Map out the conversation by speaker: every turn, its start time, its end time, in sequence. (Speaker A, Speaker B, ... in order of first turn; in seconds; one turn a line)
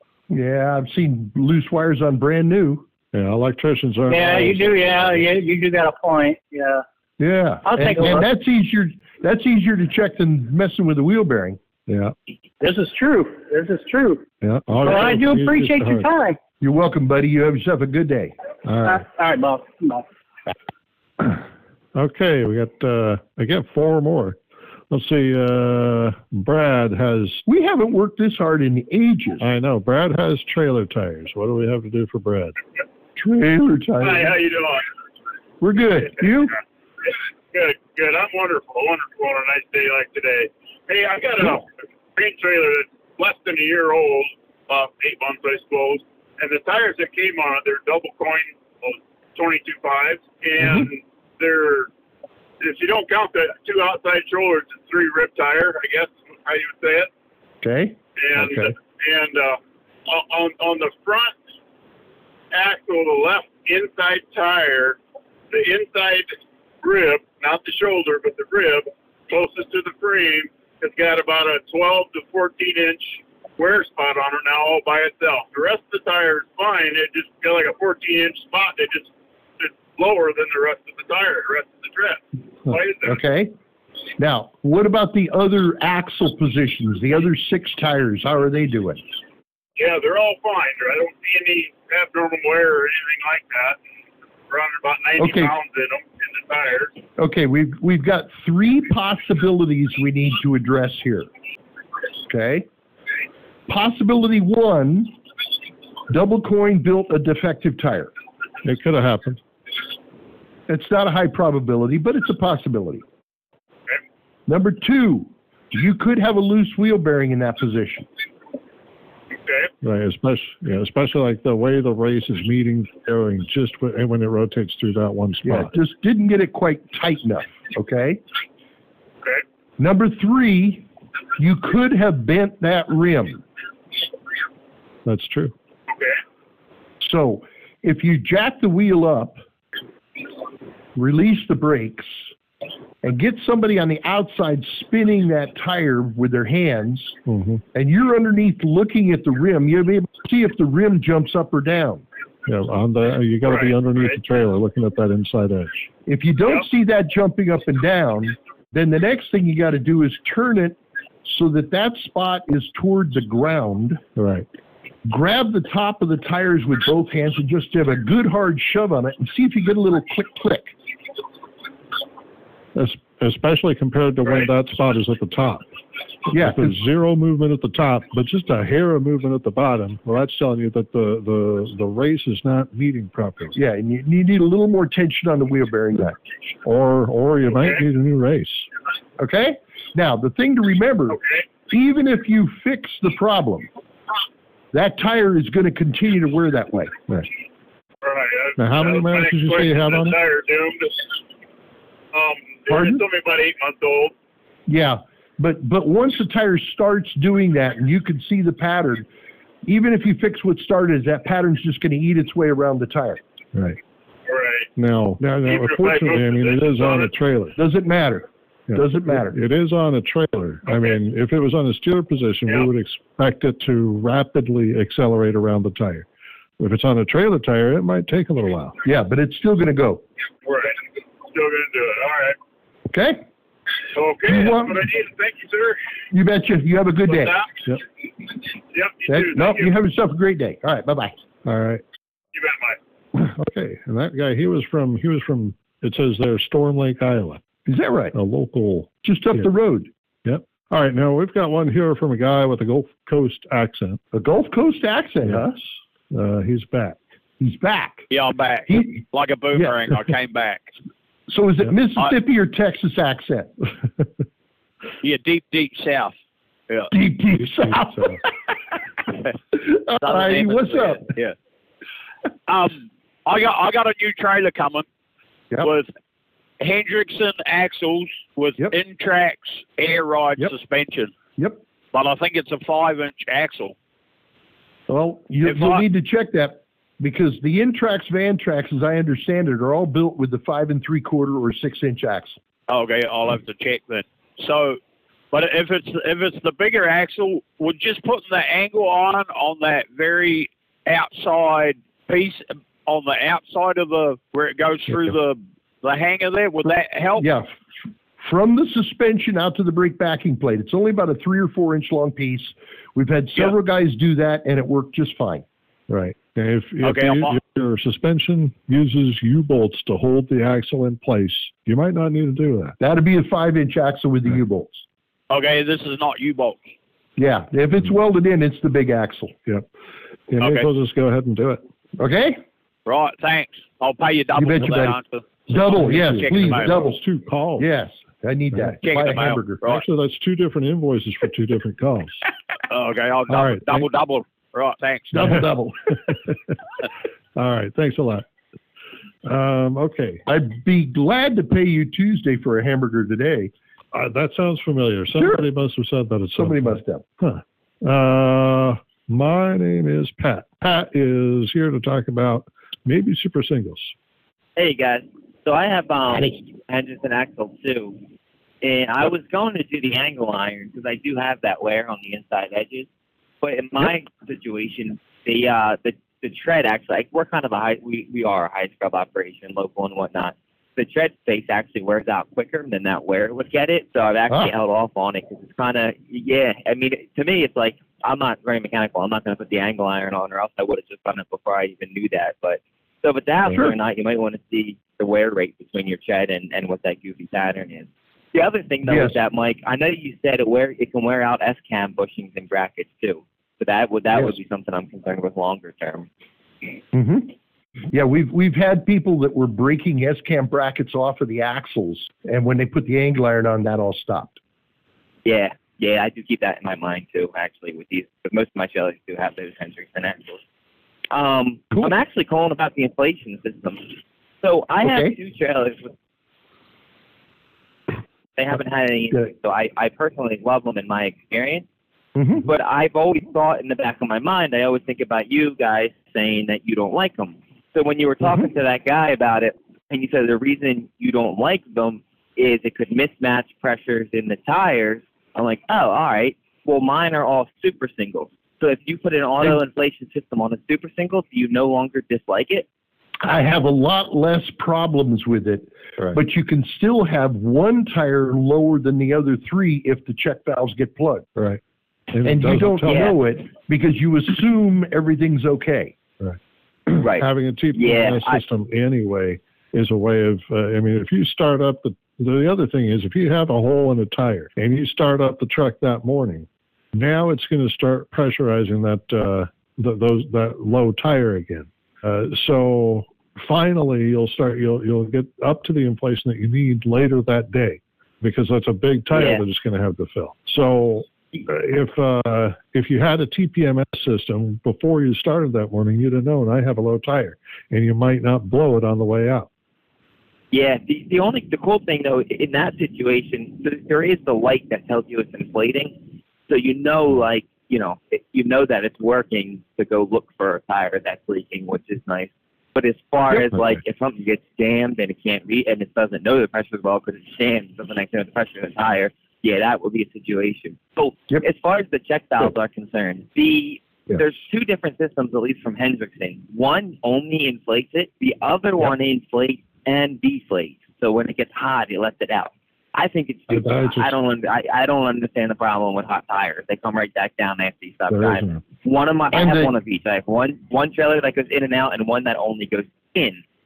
Speaker A: 0.3-2.9
Speaker B: 3.1-5.3
Speaker C: 4.1-6.8
Speaker A: 7.2-11.6
Speaker C: 7.6-8.3
Speaker B: 11.9-12.1
Speaker C: 12.6-14.2
Speaker B: 14.4-16.1
Speaker C: 14.8-16.4
Speaker A: 16.6-18.3
Speaker B: 18.6-19.0
Speaker C: 18.8-20.0
Speaker B: 21.9-27.4
Speaker A: 27.4-29.4
Speaker B: 29.4-32.5
Speaker A: 33.2-34.4
Speaker D: 34.0-34.9
Speaker A: 35.6-36.6
Speaker D: 37.5-51.9
Speaker A: 50.6-50.9
Speaker D: 52.6-57.1
Speaker A: 57.6-58.7
Speaker D: 58.2-61.4
Speaker D: 62.5-65.0
Speaker D: 65.5-83.2
Speaker A: 83.0-83.5
Speaker A: 84.2-89.0
Speaker D: 89.8-93.8
Speaker D: 94.5-97.0
Speaker A: 95.2-95.5
Speaker A: 97.2-101.3
Speaker A: 102.3-102.7
Speaker A: 103.7-105.1
Speaker A: 106.1-108.1
Speaker B: 108.6-109.4
Speaker A: 110.7-113.0
Speaker A: 114.5-118.1
Speaker D: 119.3-119.7
Speaker B: 119.8-125.7
Speaker A: 125.4-128.2
Speaker A: 129.8-130.8
Speaker A: 131.4-133.4
Speaker B: 135.0-135.5
Speaker D: 135.9-136.2
Speaker A: 137.0-139.4
Speaker A: 140.9-142.1
Speaker A: 143.0-147.2
Speaker B: 147.2-147.6
Speaker A: 147.7-152.0
Speaker B: 152.4-155.9
Speaker D: 153.4-154.2
Speaker A: 156.1-164.0
Speaker B: 164.2-164.4
Speaker A: 165.1-170.7
Speaker B: 172.7-175.6
Speaker B: 176.3-183.6
Speaker A: 176.3-176.8
Speaker A: 183.5-186.2
Speaker B: 186.6-188.7
Speaker D: 187.5-187.8
Speaker A: 189.2-193.7
Speaker D: 191.1-191.5
Speaker A: 194.7-196.9
Speaker D: 198.0-201.1
Speaker B: 198.6-200.2
Speaker D: 202.1-204.1
Speaker A: 202.7-203.0
Speaker A: 204.7-209.1
Speaker A: 209.7-213.2
Speaker B: 213.5-213.8
Speaker D: 214.3-214.7
Speaker B: 214.8-217.6
Speaker D: 215.4-217.1
Speaker A: 217.6-219.4
Speaker B: 218.7-226.1
Speaker B: 226.6-228.8
Speaker A: 228.8-230.0
Speaker D: 230.4-232.4
Speaker A: 232.9-233.2
Speaker D: 233.9-235.8
Speaker A: 234.3-234.8
Speaker A: 236.1-237.3
Speaker D: 237.1-237.6
Speaker D: 238.7-239.7
Speaker A: 239.1-241.1
Speaker B: 241.4-241.8
Speaker D: 242.3-242.8
Speaker B: 243.2-247.4
Speaker A: 247.7-248.1
Speaker B: 248.1-249.5
Speaker A: 249.0-249.9
Speaker B: 250.2-254.0
Speaker A: 254.1-255.6
Speaker B: 255.2-255.5
Speaker B: 256.1-257.0
Speaker A: 257.4-258.0
Speaker E: 258.1-260.7
Speaker A: 258.7-259.0
Speaker A: 261.3-263.5
Speaker E: 265.0-266.1
Speaker A: 266.9-268.3
Speaker B: 267.6-268.2
Speaker A: 269.5-271.0
Speaker E: 272.5-274.8
Speaker E: 275.6-275.9
Speaker E: 276.6-281.1
Speaker E: 281.9-283.7
Speaker A: 284.9-292.4
Speaker E: 285.4-285.8
Speaker E: 292.7-294.8
Speaker E: 295.3-307.3
Speaker A: 307.2-307.5
Speaker A: 308.2-315.4
Speaker B: 315.9-322.8
Speaker E: 316.8-317.4
Speaker A: 322.8-324.8
Speaker E: 325.3-326.6
Speaker A: 327.2-329.3
Speaker B: 330.3-331.6
Speaker E: 330.4-330.7
Speaker A: 332.0-332.4
Speaker E: 332.9-336.8
Speaker A: 334.4-334.9
Speaker A: 335.5-337.0
Speaker B: 335.7-337.7
Speaker A: 337.6-339.6
Speaker E: 338.8-339.8
Speaker B: 339.6-342.2
Speaker E: 342.7-345.4
Speaker B: 343.3-343.9
Speaker A: 345.1-345.9
Speaker B: 346.0-346.4
Speaker B: 347.4-348.2
Speaker B: 349.2-350.2
Speaker A: 350.3-353.5
Speaker B: 353.9-363.9
Speaker A: 355.2-355.4
Speaker A: 356.4-357.0
Speaker F: 364.6-368.0
Speaker F: 368.6-372.9
Speaker F: 373.4-406.1
Speaker A: 393.4-393.7
Speaker A: 398.8-399.2
Speaker A: 406.9-407.3
Speaker A: 407.9-414.4
Speaker F: 415.2-420.4
Speaker F: 421.1-423.9
Speaker F: 424.4-425.9
Speaker A: 424.8-425.1
Speaker F: 428.4-431.6
Speaker A: 432.1-432.5
Speaker F: 432.4-452.6
Speaker A: 438.2-438.5
Speaker A: 453.2-461.3
Speaker B: 461.4-463.1
Speaker A: 462.2-465.9
Speaker F: 462.8-463.1
Speaker B: 466.9-499.5
Speaker F: 467.0-468.4
Speaker F: 489.1-489.4
Speaker F: 500.5-543.4
Speaker A: 513.3-513.6
Speaker B: 533.5-534.1
Speaker B: 538.1-538.6
Speaker A: 539.3-539.7